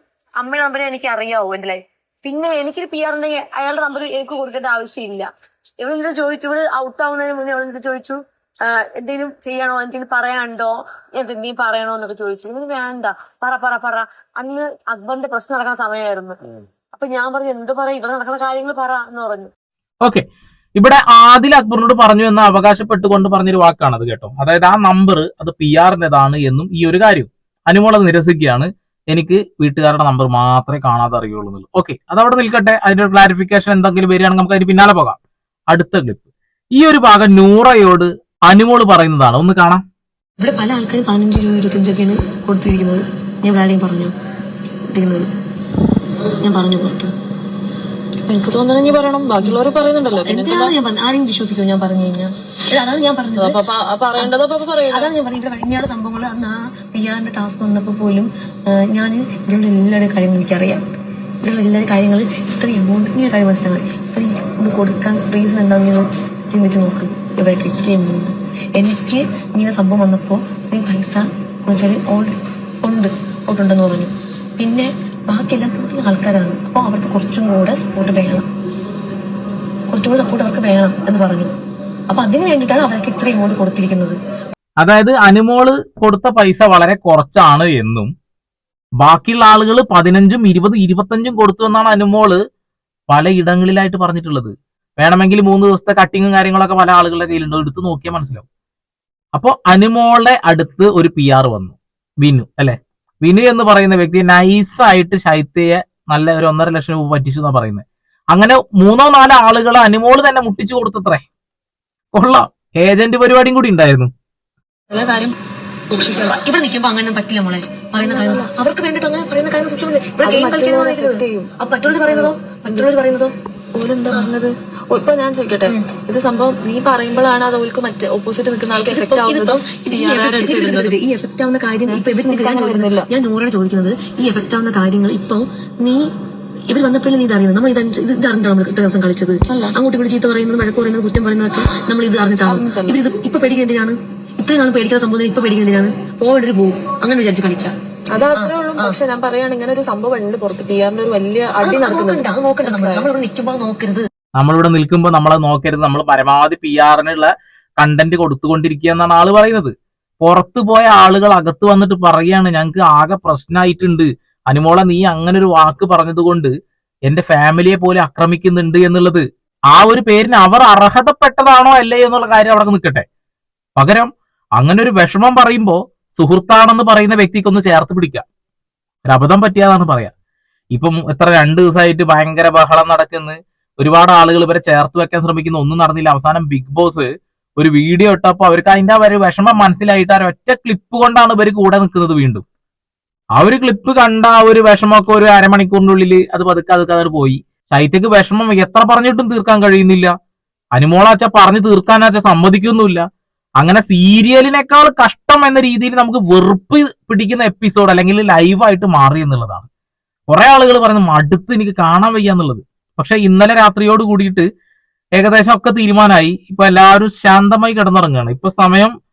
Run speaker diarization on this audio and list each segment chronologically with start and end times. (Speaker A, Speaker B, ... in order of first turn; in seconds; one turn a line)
Speaker A: 0.4-5.3
Speaker A: 5.8-16.4
Speaker A: 16.9-19.5
Speaker B: 20.8-35.2
Speaker B: 35.7-36.2
Speaker B: 36.8-39.8
Speaker C: 40.4-44.1
Speaker C: 44.9-45.2
Speaker C: 46.4-47.1
Speaker C: 48.3-58.3
Speaker D: 48.7-50.7
Speaker D: 54.0-55.1
Speaker A: 57.7-58.0
Speaker C: 59.0-60.8
Speaker A: 59.4-60.6
Speaker C: 61.5-72.3
Speaker A: 62.7-63.5
Speaker A: 64.8-65.5
Speaker A: 67.5-68.2
Speaker A: 69.8-70.2
Speaker C: 72.9-74.1
Speaker C: 74.6-78.4
Speaker C: 79.9-81.5
Speaker C: 82.1-84.1
Speaker B: 84.8-88.1
Speaker B: 89.0-92.4
Speaker B: 93.1-98.4
Speaker B: 99.3-111.2
Speaker B: 112.1-114.1
Speaker C: 114.9-115.3
Speaker C: 115.9-136.0
Speaker D: 118.1-118.4
Speaker D: 120.2-121.5
Speaker D: 122.1-122.7
Speaker D: 123.9-124.3
Speaker D: 128.7-131.0
Speaker D: 131.9-132.1
Speaker A: 132.2-132.9
Speaker D: 132.8-133.1
Speaker C: 136.7-147.7
Speaker D: 142.6-142.9
Speaker D: 148.1-153.1
Speaker C: 148.3-149.1
Speaker C: 151.6-154.0
Speaker B: 154.4-166.5
Speaker B: 167.1-173.1
Speaker B: 173.8-178.2
Speaker B: 179.1-180.1
Speaker B: 180.7-192.4
Speaker B: 193.4-200.1
Speaker B: 200.8-203.1
Speaker B: 203.6-209.7
Speaker B: 210.3-214.5
Speaker B: 215.2-218.9